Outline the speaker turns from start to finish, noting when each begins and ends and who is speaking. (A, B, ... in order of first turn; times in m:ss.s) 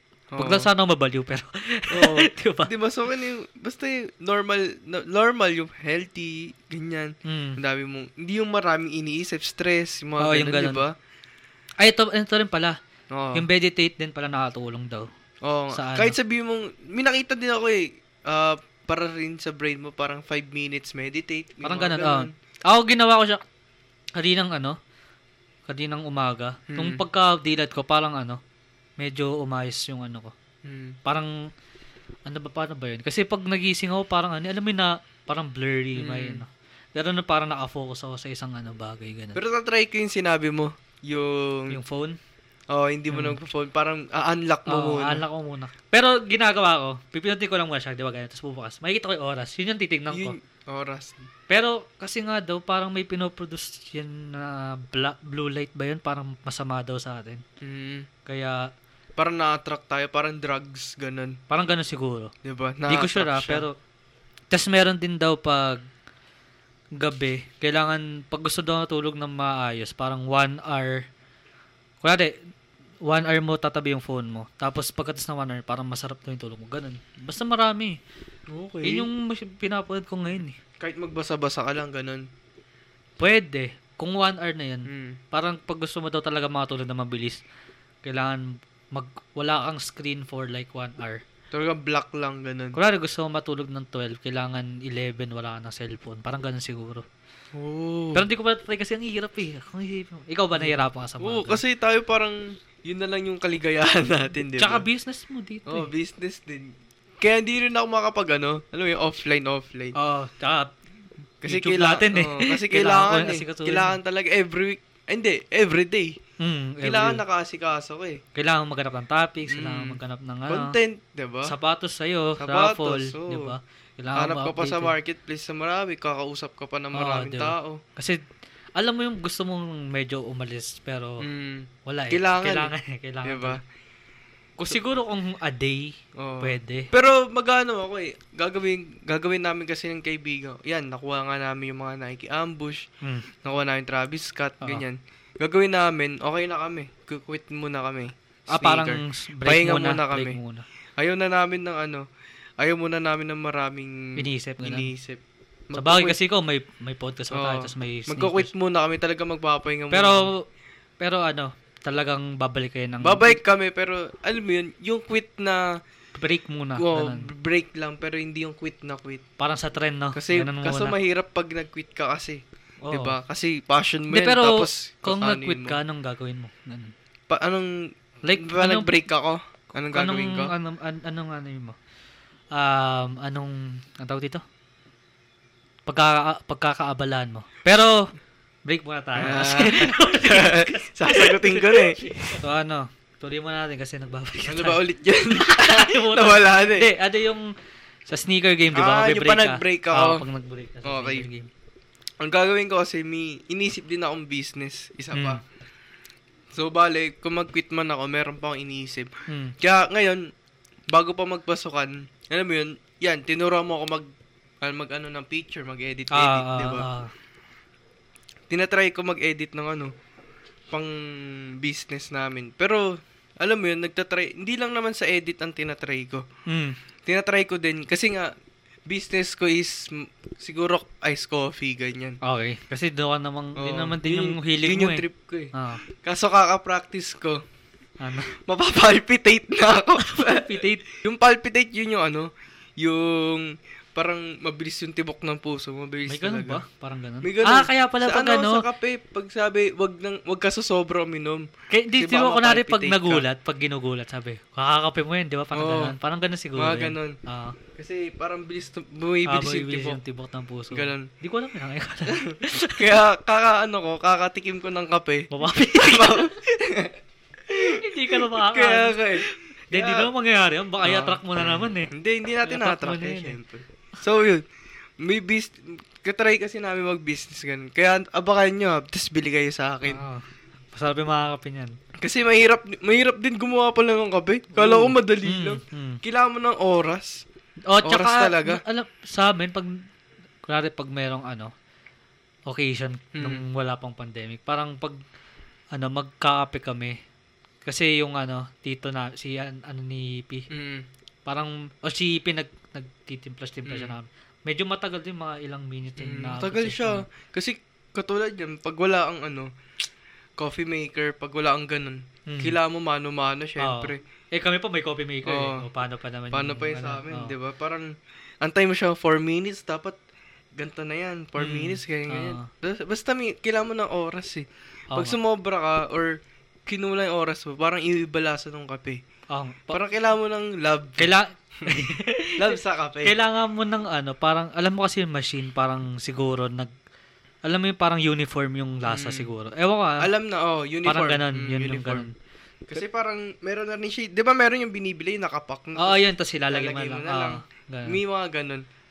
0:00.3-0:00.7 A
0:00.4-0:02.7 B
0:01.9-0:10.9 A
0:07.2-0:07.6 B
0:10.2-0:10.8 B
0:11.8-0:12.8 B
0:13.1-0:13.4 A
0:13.3-0:15.1 B
0:15.4-0:22.3 A
0:15.7-0:16.2 B
0:21.6-0:23.4 B
0:24.1-0:24.8 B
0:25.7-0:28.4 B
0:26.7-0:27.0 A
0:29.0-0:30.3 B
0:30.6-0:31.0 A
0:31.0-0:31.3 B
0:32.2-0:39.4 B
0:36.0-0:36.4 A
0:39.3-0:41.8 A
0:41.7-0:42.2 B
0:42.7-0:45.2 A
0:43.1-0:43.4 B
0:44.7-0:50.4 B
0:50.1-0:51.3 A
0:51.5-0:57.4 B
0:57.6-0:58.1 A
0:58.2-0:58.7 B
0:59.2-1:01.4 A
1:01.5-1:02.3 B
1:02.4-1:03.6 A
1:02.9-1:03.8 B
1:04.5-1:05.8 B
1:07.0-1:11.0 B
1:12.0-1:12.4 B
1:13.0-1:18.0 B
1:18.5-1:19.1 A
1:18.8-1:20.6 B
1:20.8-1:22.2 A
1:23.2-1:27.4 B
1:24.8-1:25.2 A
1:28.0-1:31.2 B
1:31.5-1:32.8 A
1:32.7-1:37.0 B
1:37.5-1:38.2 A
1:38.1-1:41.6 B
1:40.5-1:44.8 A
1:44.6-1:45.9 B
1:45.7-1:49.9 A
1:50.0-1:50.7 B
1:51.4-1:56.2 A
1:51.4-1:54.0 B
1:56.4-1:57.2 B
1:56.8-1:58.2 A
1:58.3-2:00.8 B
1:59.5-2:01.5 A
2:01.4-2:04.9 B
2:02.4-2:03.5 A
2:04.2-2:07.8 A
2:06.9-2:08.2 B
2:08.8-2:11.2 B
2:11.2-2:12.7 A
2:11.8-2:13.6 B
2:13.2-2:13.6 A
2:14.6-2:16.9 B
2:16.2-2:22.9 A
2:23.0-2:23.3 B
2:23.4-2:30.4 A
2:28.5-2:30.6 B
2:31.0-2:32.0 A
2:32.6-2:36.2 A
2:34.2-2:34.9 B
2:35.7-2:38.5 B
2:37.3-2:40.3 A
2:39.9-2:40.4 B
2:41.0-2:43.4 B
2:43.0-2:45.8 A
2:46.1-2:47.3 B
2:46.8-2:49.2 A
2:49.4-2:51.0 B
2:50.1-2:55.8 A
2:52.8-2:53.2 B
2:54.1-2:56.9 B
2:57.3-3:00.5 A
2:58.2-2:59.0 B
2:59.9-3:01.8 B
3:02.5-3:04.4 B
3:05.8-3:08.1 B
3:08.6-3:17.5 B
3:09.2-3:12.4 A
3:14.4-3:16.9 A
3:18.1-3:21.5 B
3:18.7-3:20.2 A
3:20.8-3:21.2 A
3:22.2-3:25.4 A
3:25.1-3:25.4 B
3:26.5-3:30.3 A
3:29.3-3:29.5 B
3:30.9-3:34.1 A
3:34.6-3:36.8 A
3:36.1-3:37.1 B
3:38.5-3:39.9 A
3:40.7-3:46.2 A
3:46.5-3:46.8 B
3:47.0-3:48.3 A
3:48.9-3:52.2 A
3:52.2-3:55.8 B
3:53.6-3:57.4 A
3:58.0-3:58.3 B
3:58.5-4:06.6 A
4:00.0-4:00.8 B
4:06.1-4:08.6 B
4:07.2-4:13.2 A
4:11.7-4:17.6 B
4:15.5-4:15.9 A
4:16.6-4:17.2 A
4:17.7-4:20.0 A
4:19.3-4:22.9 B
4:20.7-4:21.1 A
4:22.1-4:26.9 A
4:25.3-4:26.3 B
4:27.5-4:30.1 A
4:27.5-4:31.9 B
4:30.8-4:34.4 A
4:32.4-4:33.4 B
4:35.0-4:40.0 A
4:39.8-4:41.7 B
4:42.0-4:47.2 A
4:44.5-4:46.0 B
4:47.7-4:49.8 B
4:47.8-4:48.6 A
4:50.4-4:51.5 B
4:52.5-4:55.0 B
4:53.1-4:53.4 A
4:55.7-4:57.0 B
4:57.6-5:00.5 B
5:00.5-5:00.8 A
5:01.2-5:07.0 B
5:03.6-5:03.9 A
5:06.0-5:09.5 A
5:10.4-5:14.0 A
5:12.3-5:12.6 B
5:13.6-5:17.3 B
5:15.2-5:15.6 A
5:16.3-5:17.9 A
5:18.4-5:20.0 A
5:20.6-5:29.0 A
5:21.4-5:22.5 B
5:24.9-5:25.2 B
5:29.3-5:29.8 B
5:29.7-5:33.1 A
5:31.0-5:36.7 B
5:37.4-5:40.1 B
5:38.8-5:39.3 A
5:40.0-5:42.1 A
5:40.8-5:42.1 B
5:42.7-5:48.6 A
5:45.8-5:48.0 B